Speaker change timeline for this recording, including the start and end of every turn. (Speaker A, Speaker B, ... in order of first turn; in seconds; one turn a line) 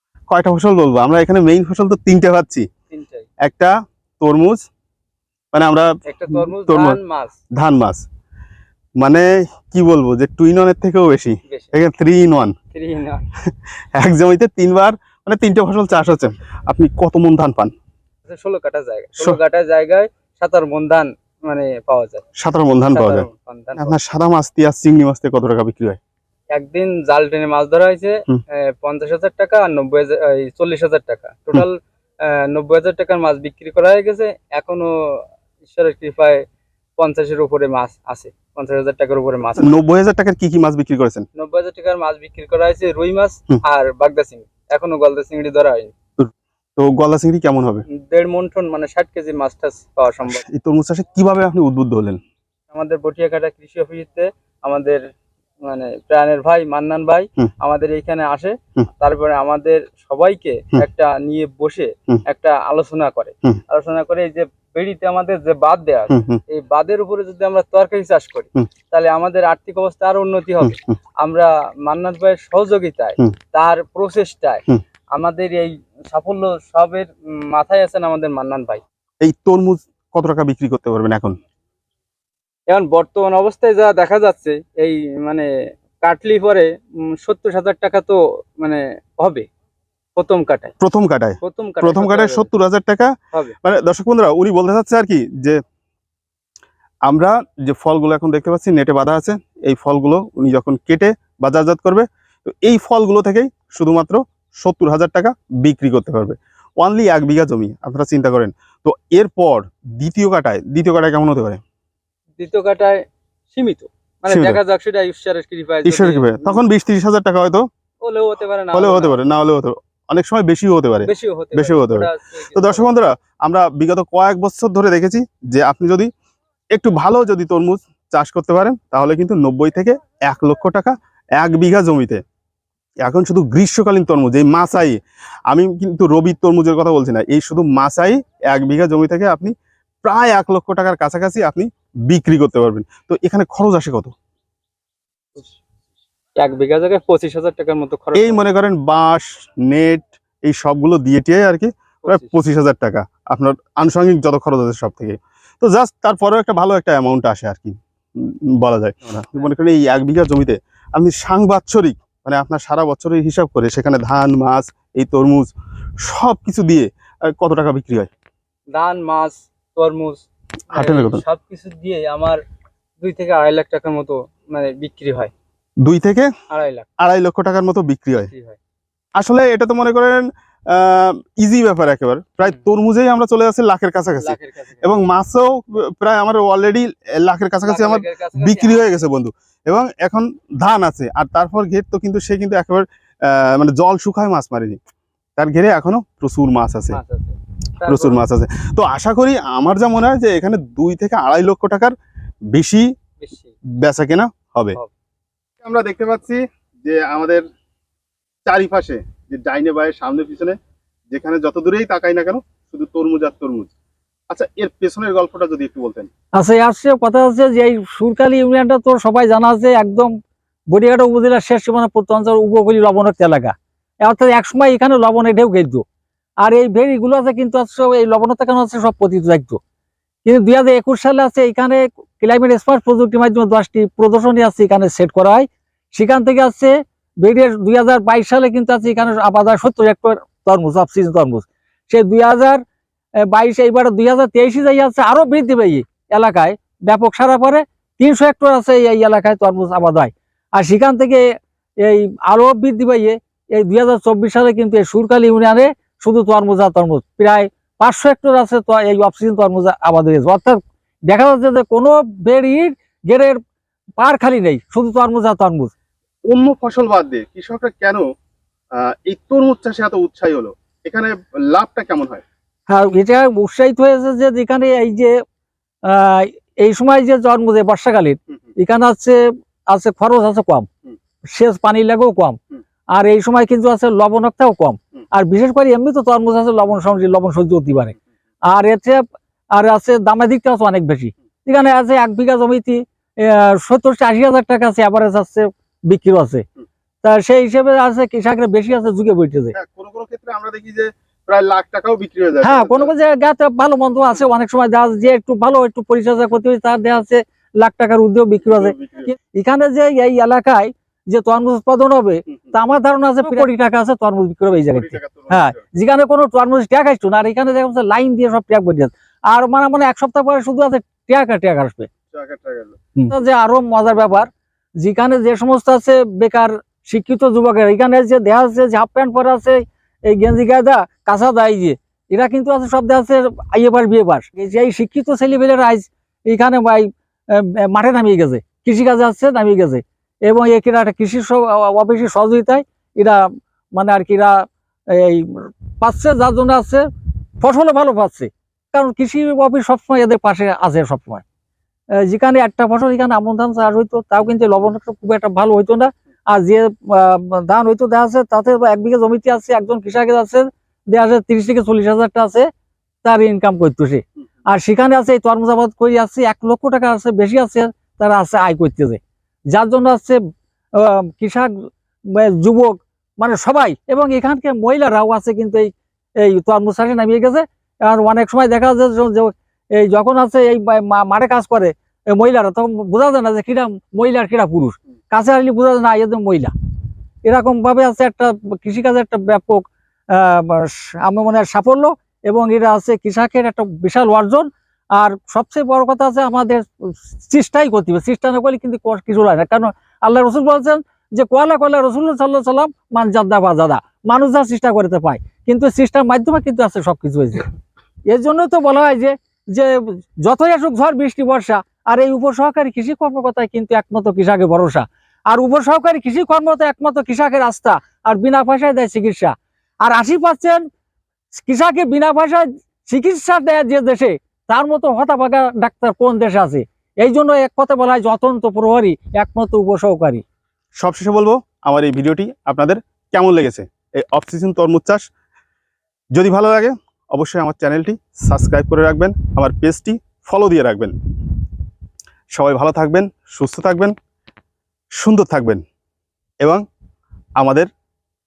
Speaker A: 0.3-2.7
Speaker B: 2.9-3.3
Speaker A: 3.4-4.6
Speaker A: 5.5-7.0
Speaker B: 6.1-7.4
Speaker A: 7.6-8.0
Speaker A: 9.0-12.5
Speaker B: 11.5-11.8
Speaker B: 12.7-13.3
Speaker A: 13.9-17.7
Speaker B: 18.3-22.2
Speaker A: 22.4-23.3
Speaker B: 22.9-24.0
Speaker A: 23.8-26.0
Speaker B: 26.5-36.4
Speaker B: 37.0-39.8
Speaker A: 39.6-41.2
Speaker B: 41.4-45.9
Speaker A: 46.2-47.8
Speaker B: 47.9-50.4
Speaker A: 50.3-52.2
Speaker B: 52.7-55.0
Speaker B: 55.6-78.8
Speaker A: 66.1-66.4
Speaker A: 79.2-81.4
Speaker B: 82.7-89.5
Speaker B: 90.2-90.7
Speaker A: 90.8-95.6
Speaker B: 91.4-92.5
Speaker A: 97.1-111.6
Speaker B: 112.4-116.6
Speaker A: 114.3-114.6
Speaker A: 115.8-117.7
Speaker B: 118.0-119.2
Speaker A: 118.7-126.1
Speaker B: 121.1-122.9
Speaker A: 126.7-132.2
Speaker A: 133.0-135.0
Speaker A: 135.5-139.5
Speaker A: 140.0-144.1
Speaker B: 146.4-148.4
Speaker A: 148.2-168.1
Speaker B: 152.1-152.3
Speaker B: 168.7-172.4
Speaker A: 170.7-171.2
Speaker B: 173.0-175.3
Speaker A: 175.8-176.3
Speaker B: 176.5-176.9
Speaker A: 177.0-178.3
Speaker B: 178.2-178.6
Speaker A: 179.2-194.8
Speaker B: 184.2-185.0
Speaker B: 187.7-189.0
Speaker A: 195.4-197.0
Speaker B: 196.9-198.2
Speaker A: 197.9-201.9
Speaker A: 202.5-202.9
Speaker B: 203.2-203.5
Speaker A: 203.8-204.8
Speaker A: 205.6-207.4
Speaker A: 208.5-210.6
Speaker A: 211.1-213.7
Speaker A: 214.3-216.1
Speaker C: 216.4-220.1
Speaker C: 220.7-225.8
Speaker C: 226.4-229.6
Speaker C: 230.2-236.7
Speaker C: 237.2-242.6
Speaker C: 243.2-251.2
Speaker C: 251.8-260.6
Speaker C: 261.1-263.4
Speaker C: 264.0-265.7
Speaker A: 266.3-268.0
Speaker A: 268.8-272.2
Speaker C: 272.7-275.1
Speaker C: 275.9-279.2
Speaker C: 279.7-280.7
Speaker C: 281.3-282.4
Speaker C: 282.9-288.0
Speaker C: 288.5-289.0
Speaker C: 289.6-296.4
Speaker C: 297.0-299.5
Speaker A: 299.5-302.9
Speaker C: 302.4-321.9
Speaker A: 308.5-309.1
Speaker A: 314.8-315.6
Speaker A: 322.1-322.8
Speaker C: 323.1-346.9
Speaker C: 347.4-351.2
Speaker C: 352.0-362.5
Speaker C: 363.0-369.0
Speaker C: 369.5-370.2
Speaker C: 370.8-371.5
Speaker C: 372.1-386.5
Speaker C: 387.2-407.5
Speaker C: 408.1-420.7
Speaker C: 421.4-430.2
Speaker A: 430.8-435.0
Speaker A: 436.1-440.9
Speaker A: 442.3-443.9
Speaker A: 445.0-445.6
Speaker A: 447.4-447.7